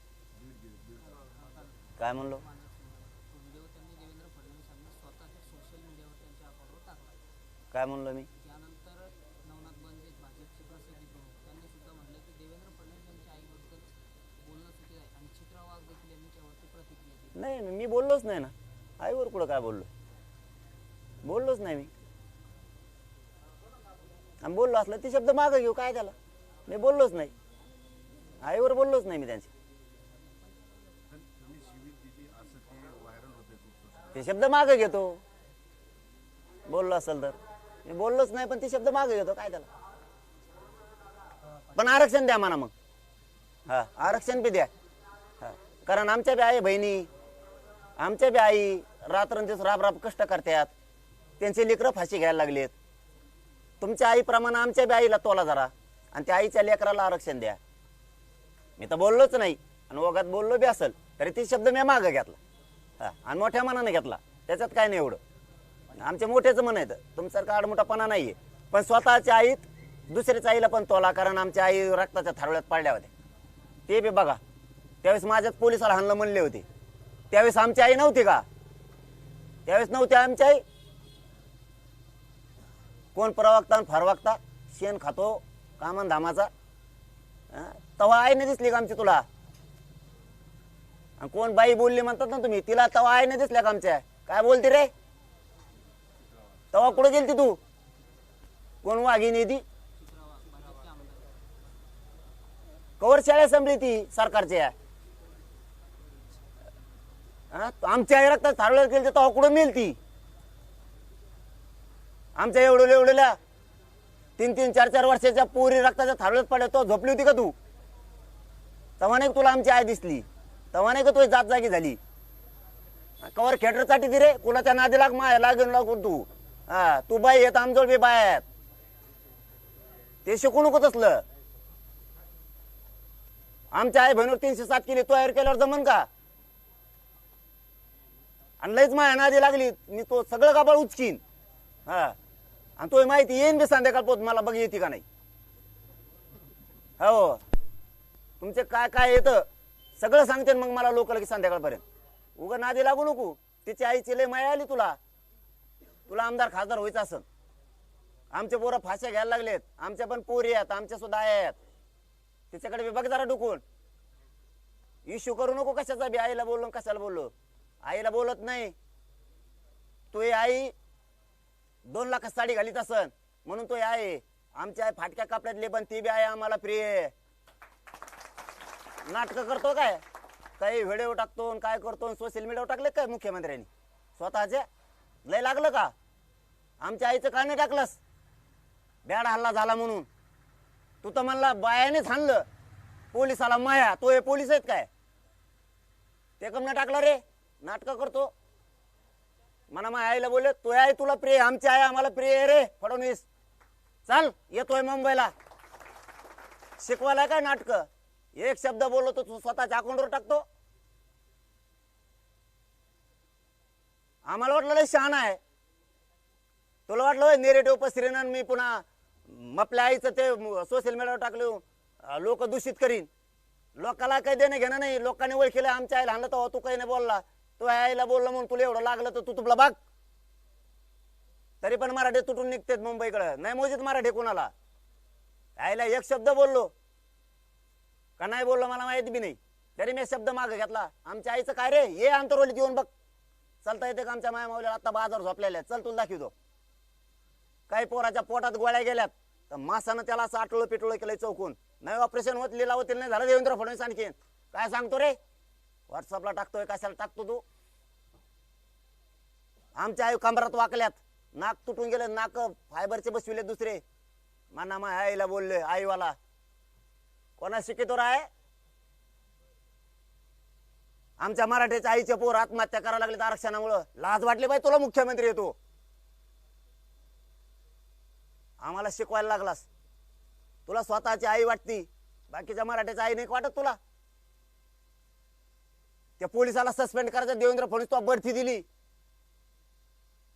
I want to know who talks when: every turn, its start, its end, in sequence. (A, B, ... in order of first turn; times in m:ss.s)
0:00.3-0:01.4 A
0:01.1-0:07.2 B
0:02.0-0:02.4 C
0:07.7-0:08.3 C
0:08.4-0:17.4 B
0:17.3-0:19.9 C
0:21.2-0:21.9 C
0:24.4-0:26.1 C
0:26.7-0:27.3 C
0:28.4-0:29.5 C
0:31.1-0:34.3 A
0:34.1-0:35.2 C
0:36.7-0:39.7 C
0:41.7-0:42.7 C
0:43.7-0:44.7 C
0:45.4-0:47.1 C
0:48.0-0:50.7 C
0:51.4-0:52.7 C
0:53.8-0:57.6 C
0:58.8-1:02.4 C
1:03.0-1:05.2 C
1:05.9-1:13.1 C
1:13.9-1:14.4 C
1:15.0-1:16.6 C
1:17.3-1:18.4 C
1:19.7-1:20.6 C
1:23.2-1:26.5 C
1:27.5-1:29.2 C
1:31.2-1:34.9 C
1:36.7-1:37.6 C
1:38.8-1:39.6 C
1:40.0-1:41.4 B
1:43.0-1:44.7 C
1:46.2-1:46.4 B
1:47.5-1:50.0 C
1:52.4-1:53.4 C
1:54.4-1:57.6 C
1:59.0-2:02.0 C
2:03.2-2:08.4 C
2:10.2-2:11.2 C
2:13.7-2:16.1 C
2:18.6-2:21.2 C
2:21.9-2:22.2 C
2:22.8-2:25.0 C
2:27.0-2:27.4 C
2:28.4-2:29.4 C
2:30.0-2:31.8 C
2:32.4-2:35.0 C
2:36.1-2:37.2 C
2:38.3-2:41.6 C
2:42.5-2:43.6 C
2:45.1-2:47.3 C
2:47.8-2:48.8 C
2:50.1-2:50.7 C
2:51.9-2:57.1 C
2:59.1-3:00.0 C
3:00.6-3:04.6 C
3:05.2-3:05.9 C
3:06.8-3:08.0 C
3:09.0-3:10.1 C
3:11.0-3:12.4 C
3:13.1-3:14.9 C
3:16.4-3:18.3 C
3:19.7-3:23.2 C
3:24.1-3:25.3 C
3:26.8-3:30.4 C
3:34.2-3:35.4 C
3:36.9-3:43.1 C
3:43.8-3:49.8 C
3:51.6-3:54.5 C
3:55.6-3:56.7 C
3:58.2-4:02.9 C
4:03.6-4:06.3 C
4:07.7-4:15.2 C
4:15.9-4:17.4 C
4:19.8-4:23.8 C
4:24.5-4:26.1 C
4:27.4-4:28.3 C
4:31.2-4:35.6 C
4:38.6-4:39.7 C
4:40.7-4:43.8 C
4:46.2-4:48.6 C